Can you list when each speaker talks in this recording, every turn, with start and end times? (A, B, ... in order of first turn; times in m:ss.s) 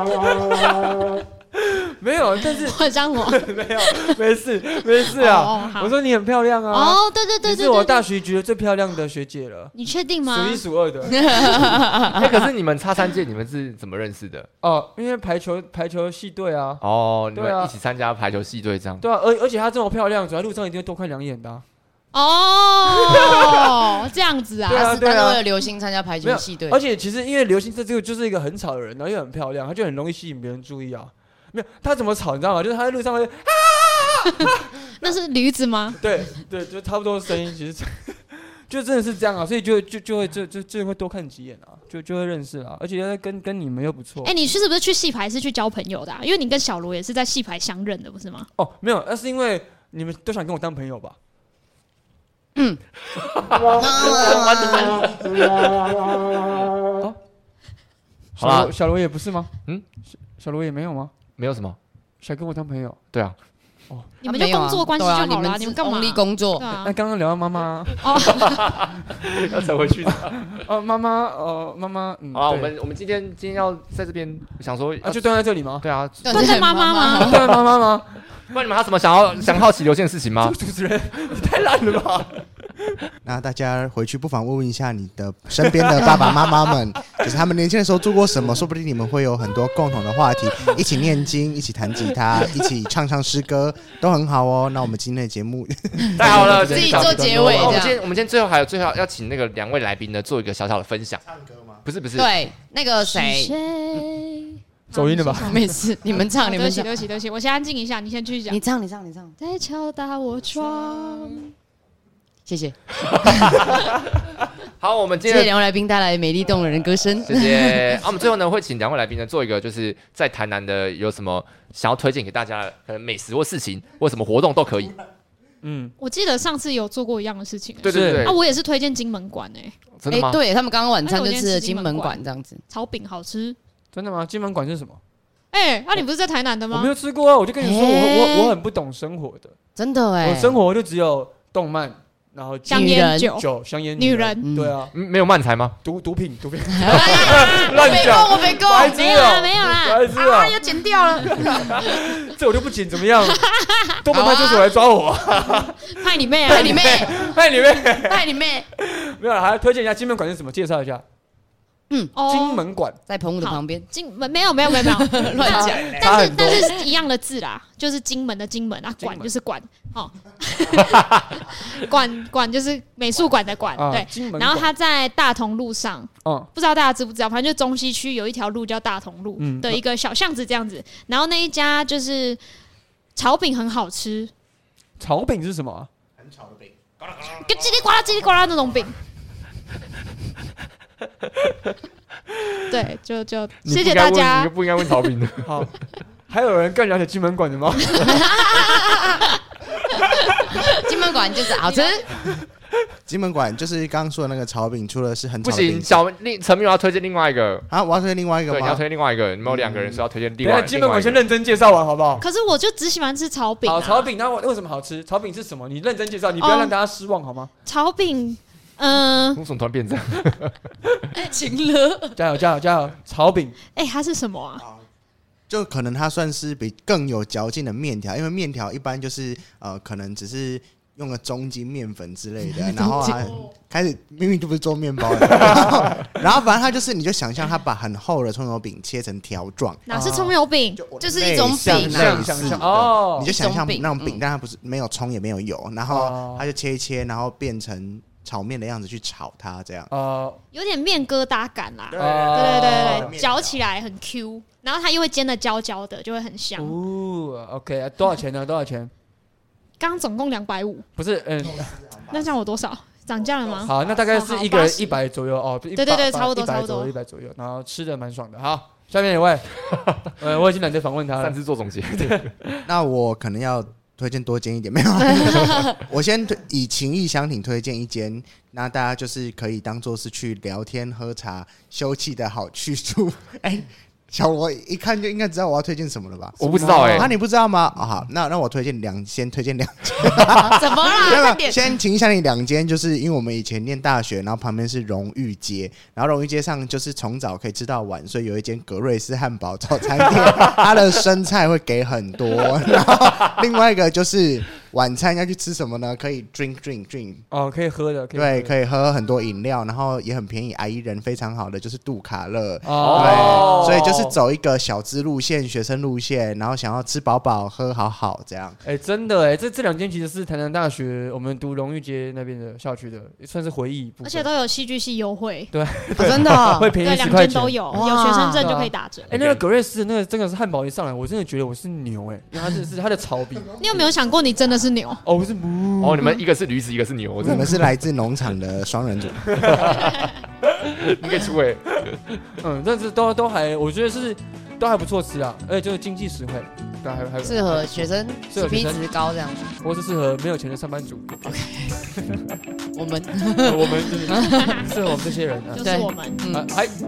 0:01.5-0:09.7 A
0:02.6-0:04.2 B
0:05.0-0:05.9 B
0:06.7-0:08.0 B
0:09.7-0:10.6 B
0:10.2-0:11.2 A
0:11.2-0:12.3 C
0:12.1-0:14.5 D
0:14.6-0:16.8 A
0:16.8-0:19.0 D
0:17.3-0:17.7 A
0:19.0-0:21.6 A
0:22.1-0:24.9 B
0:23.0-0:23.8 A
0:24.7-0:25.4 A
0:24.7-0:26.8 C
0:26.2-0:35.0 A
0:35.0-0:36.0 B
0:36.0-0:44.3 A
0:44.2-0:48.5 B
0:48.6-0:51.2 A
0:52.5-0:52.8 C
0:53.3-0:55.1 D
0:53.7-0:55.1 C
0:58.4-0:59.5 A
0:58.4-0:58.7 D
1:00.1-1:01.1 A
1:01.4-1:01.8 D
1:02.2-1:03.0 A
1:03.9-1:04.2 A
1:04.2-1:06.7 C
1:04.2-1:07.0 B
1:06.8-1:08.1 A
1:08.0-1:08.6 B
1:08.1-1:10.6 D
1:10.5-1:12.7 A
1:12.3-1:16.6 D
1:15.0-1:15.8 A
1:16.2-1:17.6 C
1:16.3-1:17.5 B
1:17.1-1:18.2 A
1:18.5-1:20.6 D
1:20.4-1:23.0 A
1:23.2-1:36.4 E
1:25.6-1:26.8 A
1:36.2-1:41.2 D
1:36.2-1:37.9 A
1:36.2-1:38.0 C
1:41.2-1:41.8 E
1:41.8-1:42.3 D
1:42.1-1:44.1 C
1:43.0-1:48.6 B
1:44.9-1:45.6 A
1:45.4-1:46.9 C
1:48.5-1:49.4 C
1:49.4-1:51.5 B
1:52.4-1:52.8 C
1:53.0-1:54.0 D
1:53.3-1:53.6 C
1:54.8-1:55.5 D
1:55.2-1:58.0 C
1:57.2-2:05.0 D
2:05.6-2:05.9 A
2:06.0-2:09.7 B
2:07.8-2:08.4 D
2:07.8-2:08.3 A
2:10.0-2:10.4 D
2:10.1-2:12.6 C
2:11.0-2:13.6 B
2:13.9-2:15.0 A
2:15.5-2:16.9 B
2:16.7-2:19.6 A
2:17.6-2:18.6 C
2:19.8-2:20.6 C
2:20.2-2:24.9 A
2:22.7-2:23.3 C
2:22.7-2:24.4 B
2:24.4-2:24.7 C
2:24.9-2:25.8 D
2:25.8-2:30.6 A
2:26.8-2:29.2 C
2:27.2-2:28.1 B
2:28.9-2:30.1 B
2:30.1-2:31.9 C
2:31.2-2:33.4 A
2:33.3-2:34.0 B
2:34.0-2:41.0 A
2:34.1-2:34.8 C
2:35.9-2:37.0 B
2:36.4-2:37.3 C
2:38.0-2:38.7 C
2:41.9-2:42.1 C
2:42.1-2:42.6 B
2:42.3-2:43.0 A
2:43.1-2:43.8 C
2:43.4-3:02.4 B
2:44.7-2:46.8 C
2:45.4-2:46.7 A
2:49.0-2:49.3 A
2:50.9-2:51.2 D
2:53.7-2:54.7 A
2:56.2-2:56.5 A
2:59.4-2:59.8 A
3:03.2-3:04.3 B
3:05.0-3:05.9 A
3:06.2-3:07.1 E
3:07.2-3:08.9 B
3:12.7-3:14.5 B
3:13.6-3:15.6 D
3:15.4-3:15.7 A
3:16.3-3:18.3 A
3:18.0-3:19.3 C
3:20.6-3:22.1 C
3:21.6-3:22.0 B
3:22.2-3:22.4 A
3:23.1-3:26.0 E
3:25.4-3:27.7 D
3:27.7-3:28.8 E
3:28.5-3:31.2 D
3:29.4-3:30.0 E
3:30.4-3:32.2 A
3:32.2-3:34.1 B
3:33.6-3:37.5 A
3:36.4-3:36.7 B
3:37.6-3:39.4 B
3:39.3-3:40.7 D
3:41.1-3:42.2 C
3:42.2-3:43.6 A
3:43.7-3:44.6 B
3:45.5-3:59.9 E
3:52.6-3:53.4 C
3:59.9-4:00.8 B
3:59.9-4:00.3 A
4:00.8-4:09.9 E
4:01.0-4:02.6 C
4:01.4-4:03.3 A
4:03.2-4:04.2 C
4:05.9-4:06.5 A
4:09.9-4:10.4 A
4:10.5-4:16.8 B
4:11.9-4:13.6 E
4:11.9-4:13.1 A
4:16.6-4:18.9 A
4:19.8-4:20.8 B
4:21.0-4:21.8 A
4:21.5-4:22.2 E
4:22.1-4:25.0 B
4:23.6-4:29.6 A
4:25.8-4:26.9 B
4:29.8-4:30.0 D
4:30.1-4:31.4 A
4:31.2-4:32.3 D
4:31.9-4:32.6 A
4:32.6-5:07.2 E
4:35.0-4:35.8 C
4:46.4-4:47.1 D
4:46.6-4:47.1 A
4:50.3-4:51.7 C
5:07.3-5:08.5 A
5:08.1-5:18.6 E
5:12.6-5:14.2 A
5:12.7-5:13.9 D
5:18.6-5:24.3 A
5:24.0-5:25.5 B
5:25.5-5:27.6 A
5:25.9-5:26.8 C
5:26.8-5:29.1 B
5:27.7-5:28.4 C
5:28.4-5:33.9 A
5:29.1-5:29.4 D
5:33.6-5:35.0 B
5:35.0-5:36.2 A
5:35.8-5:37.7 D
5:37.2-5:39.4 E
5:39.3-5:39.7 A
5:39.4-5:42.2 D
5:42.4-5:48.8 A
5:47.2-5:49.5 C
5:49.6-5:52.3 A
5:51.2-5:51.8 C
5:52.7-5:54.6 C
5:53.4-5:55.7 A
5:54.2-5:54.6 B
5:55.5-5:56.2 B
5:55.6-5:56.5 C
5:56.3-5:56.7 A